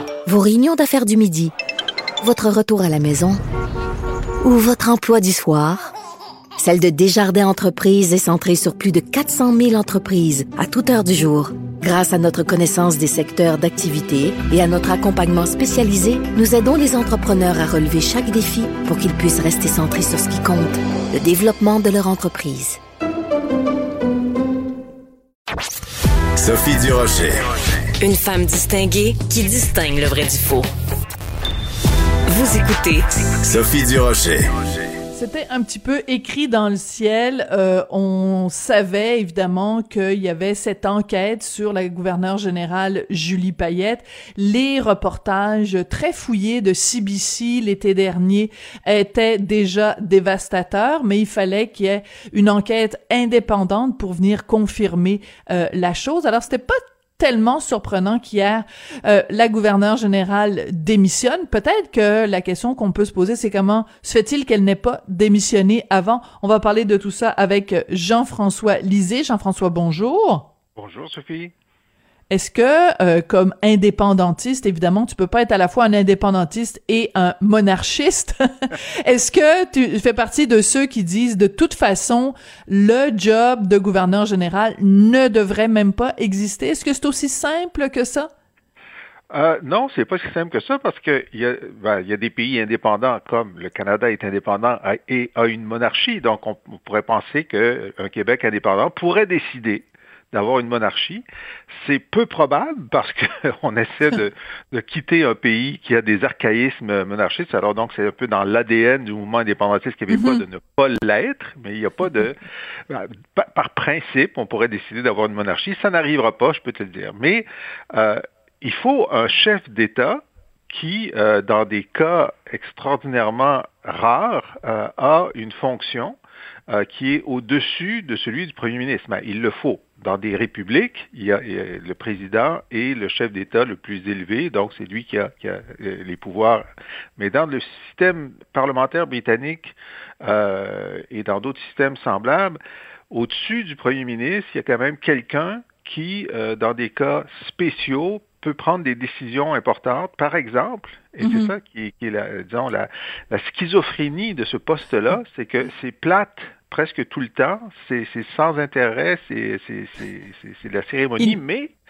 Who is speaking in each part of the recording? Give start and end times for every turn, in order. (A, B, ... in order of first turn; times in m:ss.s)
0:00.2-0:01.5 A
0:02.2-0:03.4 A
0:04.4-0:05.9 A
0:06.6-0:22.8 A
0:26.4-0:27.3 B
0:28.0-0:30.7 C
0:32.3-0:33.1 C
0:33.4-0:34.4 B
0:35.1-1:10.5 D
1:10.8-1:11.5 E
1:12.3-1:28.3 D
1:29.3-1:41.2 E
1:41.8-1:52.4 E
1:50.1-1:50.4 D
1:52.9-2:06.2 E
2:06.7-2:16.6 E
2:17.2-2:22.6 E
2:23.1-2:41.7 E
2:31.2-2:31.5 D